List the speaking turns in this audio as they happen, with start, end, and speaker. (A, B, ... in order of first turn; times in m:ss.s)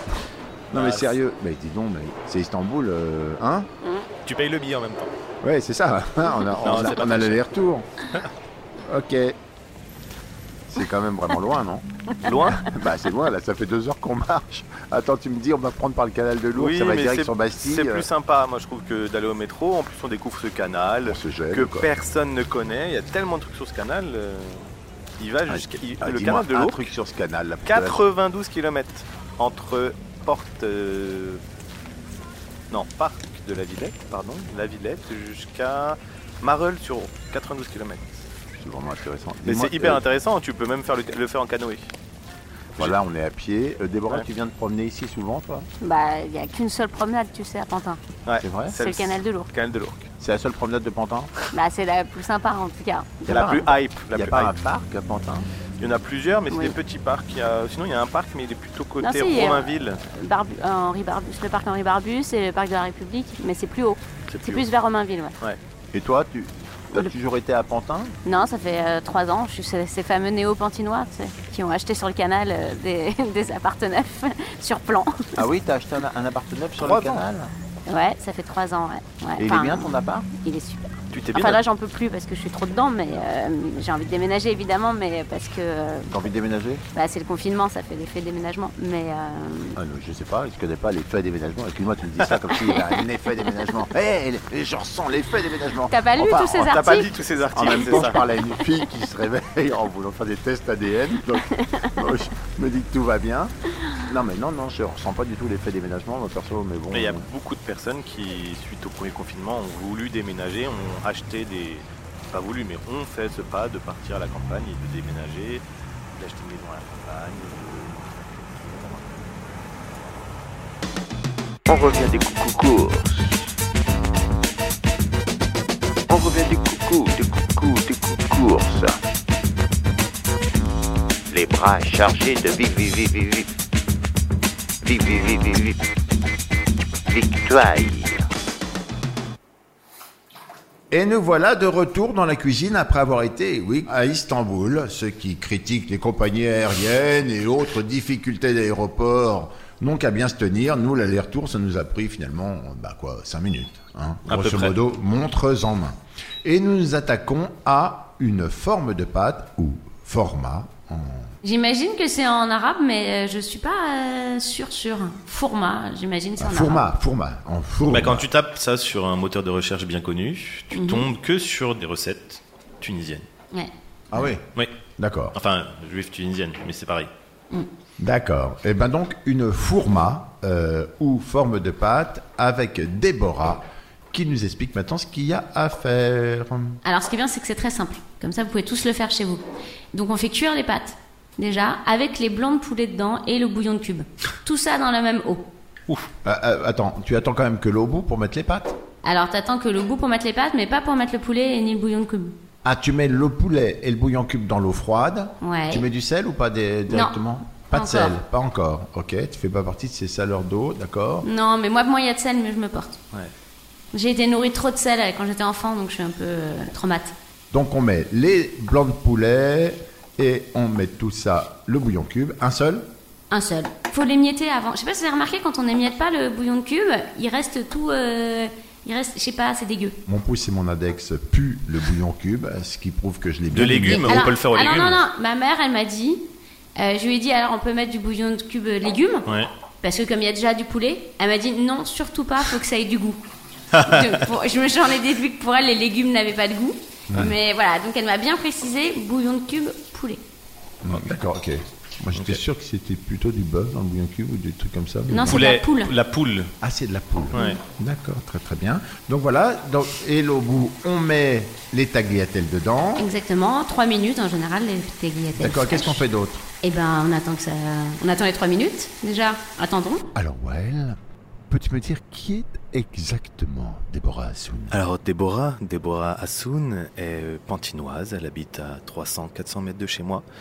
0:00.7-0:03.7 A
0:00.7-0:01.2 B
0:04.2-0:05.1 B
0:05.4-0:07.9 A
0:06.6-0:07.4 B
0:08.9-0:09.4 A
0:10.7-0:11.9 A
0:12.2-0:12.7 B
0:12.5-0:18.1 A
0:16.6-0:26.8 B
0:21.0-0:21.9 A
0:25.5-0:28.0 A
0:27.7-0:31.4 B
0:32.7-0:38.3 B
0:38.5-0:40.0 A
0:39.4-0:41.9 B
0:42.8-0:45.7 A
0:45.8-0:48.0 C
0:48.3-0:50.1 B
0:48.4-0:48.8 A
0:48.8-0:49.5 C
0:50.2-0:51.3 A
0:51.5-0:53.6 C
0:53.3-0:55.5 A
0:53.3-0:54.5 B
0:55.8-1:00.0 B
0:59.0-1:05.4 C
1:04.3-1:04.6 B
1:05.9-1:08.2 A
1:08.2-1:15.3 C
1:15.4-1:17.5 A
1:16.8-1:17.2 B
1:17.9-1:26.1 C
1:19.4-1:20.3 A
1:21.1-1:21.6 B
1:26.1-1:26.8 A
1:26.9-1:29.8 C
1:29.8-1:37.0 A
1:35.9-1:37.1 C
1:36.6-1:38.2 B
1:37.5-1:43.5 A
1:37.7-1:38.0 C
1:41.5-1:42.0 C
1:44.0-1:47.3 A
1:46.9-1:55.6 B
1:56.2-1:59.2 B
2:01.7-2:03.5 D
2:06.1-2:09.0 D
2:11.3-2:13.5 D
2:14.8-2:15.8 D
2:17.1-2:18.2 D
2:20.9-2:41.3 A
2:34.3-2:34.8 B
2:41.4-2:46.9 C
2:46.4-2:48.3 A
2:47.9-2:53.2 B
2:50.7-2:51.1 C
2:54.1-2:54.4 A
2:55.0-2:55.4 A
2:55.3-2:57.1 B
2:58.0-3:06.8 A
3:06.8-3:09.4 C
3:09.9-3:15.5 C
3:16.2-3:18.8 A
3:19.0-3:22.4 C
3:22.6-3:31.3 A
3:25.4-3:25.8 C
3:26.9-3:27.2 C
3:27.7-3:28.2 C
3:31.2-3:33.0 C
3:33.9-3:37.2 C
3:37.5-3:42.9 A
3:43.3-3:50.0 C
3:50.1-3:54.3 A
3:53.5-3:55.0 B
3:53.9-3:56.2 C
3:56.8-3:59.3 C
3:59.8-4:03.2 C
4:03.7-4:04.1 B
4:03.8-4:10.2 C
4:07.1-4:07.4 A
4:10.8-4:15.4 A
4:15.1-4:15.9 C
4:15.2-4:16.5 B
4:16.6-4:23.1 A
4:23.0-4:26.0 C
4:25.4-4:26.4 A
4:26.6-4:30.1 C
4:30.2-4:31.0 A
4:31.5-4:34.8 A
4:34.7-4:40.2 B